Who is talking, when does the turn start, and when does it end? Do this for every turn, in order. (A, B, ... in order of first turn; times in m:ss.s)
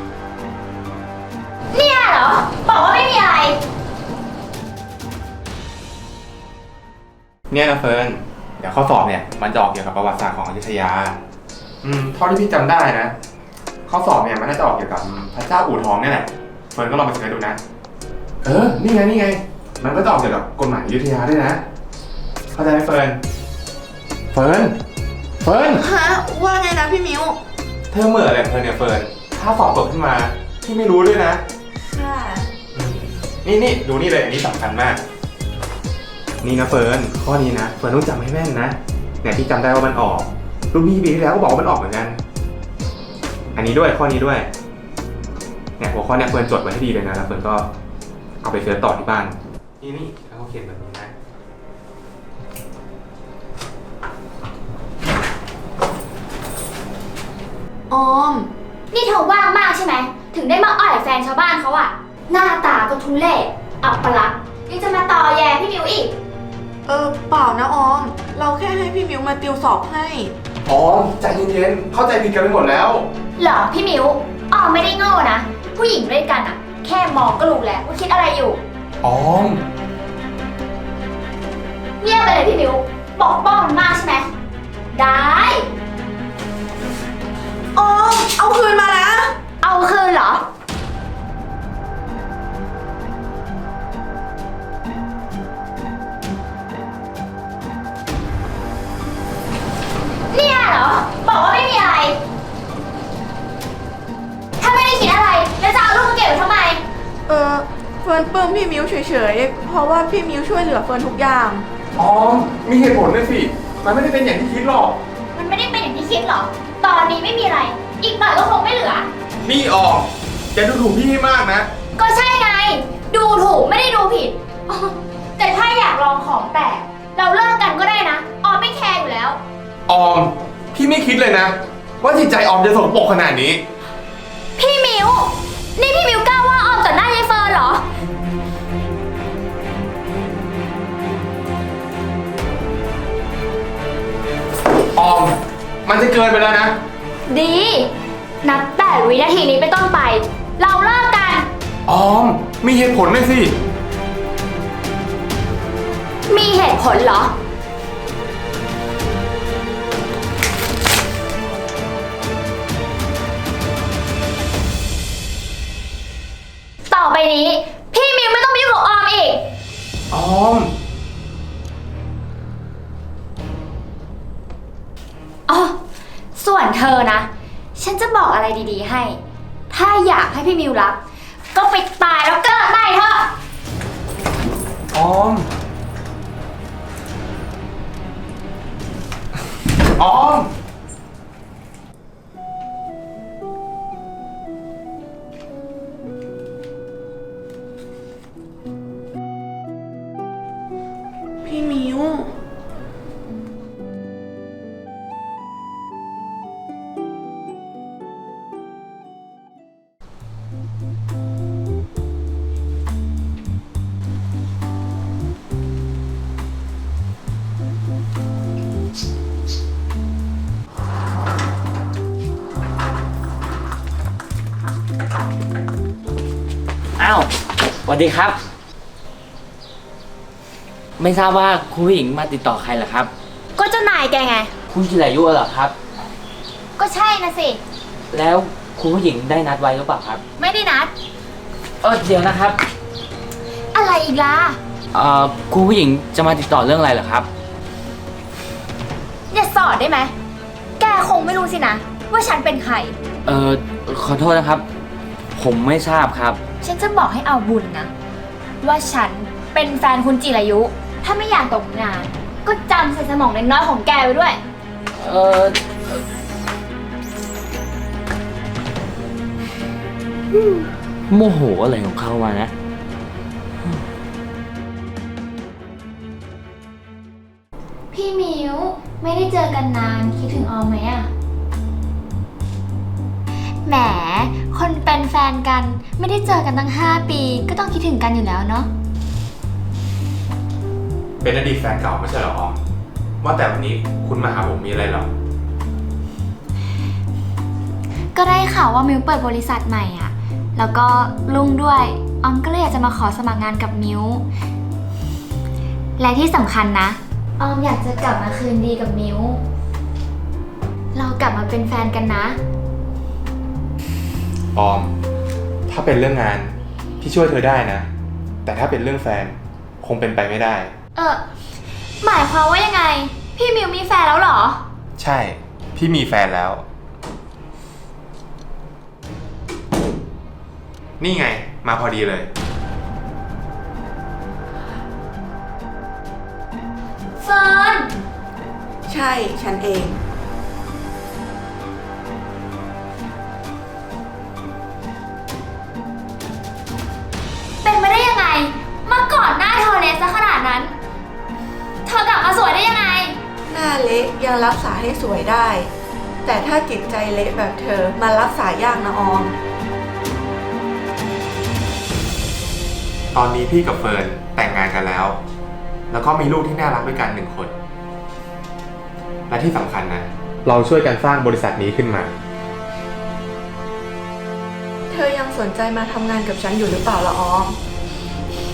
0:01.7-0:03.6 A
0:07.5-0:11.2 B
0:11.8-0:13.1 B
0:13.9-0:17.6 B
0:18.4-0:21.6 B
0:22.5-0:23.2 B
0:24.3-0:24.8 B
0:25.4-0:25.8 B
0:25.8-0:27.4 C
0:27.9-0:31.4 B
0:31.9-0:32.5 C
0:32.7-0:35.0 B
0:36.4-0:42.2 B
0:43.5-0:44.5 B
0:45.8-0:47.7 B
0:48.4-0:51.1 B
0:57.9-0:58.5 C
0:58.9-1:06.1 A
1:06.8-1:10.3 C
1:10.6-1:13.1 B
1:13.4-1:18.6 A
1:19.0-1:19.6 B
1:22.0-1:24.3 A
1:24.9-1:25.7 A
1:27.7-1:29.3 C
1:29.6-1:30.4 A
1:40.3-1:42.2 A
1:44.6-1:46.8 A
1:47.3-1:51.7 C
1:52.0-1:55.0 B
1:55.3-1:59.1 A
1:59.4-2:01.7 B
2:02.0-2:09.4 A
2:09.9-2:13.6 B
2:14.6-2:17.8 A
2:25.0-2:26.8 B
2:27.3-2:27.9 A
2:28.4-2:31.5 A
2:31.8-2:33.6 B
2:36.3-2:37.3 A
2:46.9-2:49.5 A
2:50.1-2:50.7 B
2:55.5-2:55.8 A
2:56.4-2:59.2 A
2:59.7-3:01.0 A
3:01.5-3:03.3 A
3:04.9-3:05.5 B
3:10.0-3:10.5 B
3:21.4-3:22.3 C
3:47.0-3:47.3 D
3:47.8-3:48.4 D
3:51.0-3:53.1 D
3:53.6-3:54.5 A
3:54.7-3:55.7 D
3:56.8-3:57.6 A
3:58.1-4:00.2 D
4:00.4-4:00.9 A
4:01.8-4:02.6 D
4:03.7-4:04.6 A
4:04.9-4:07.3 D
4:09.3-4:10.1 A
4:10.8-4:12.9 A
4:13.2-4:14.6 D
4:15.4-4:16.4 D
4:16.6-4:17.9 A
4:18.6-4:24.4 A
4:25.0-4:26.0 D
4:30.6-4:32.5 D
4:37.9-4:41.1 A
4:43.6-4:48.7 A
4:51.2-4:52.6 B
4:53.2-4:55.1 B
4:58.1-5:04.2 A
5:06.0-5:09.4 A
5:10.9-5:12.4 A
5:14.5-5:14.9 B
5:15.7-5:17.9 B
5:18.4-5:20.7 B
5:21.0-5:21.2 A
5:22.0-5:24.6 A
5:25.0-5:26.6 B
5:31.0-5:32.3 B
5:37.2-5:37.9 A
5:38.9-5:40.0 C
5:47.6-5:50.7 A
5:51.8-5:53.1 A
5:53.5-5:55.7 C
5:56.2-5:59.4 C
6:03.1-6:05.2 B
6:05.9-6:07.5 B
6:09.3-6:12.1 B
6:14.9-6:17.6 C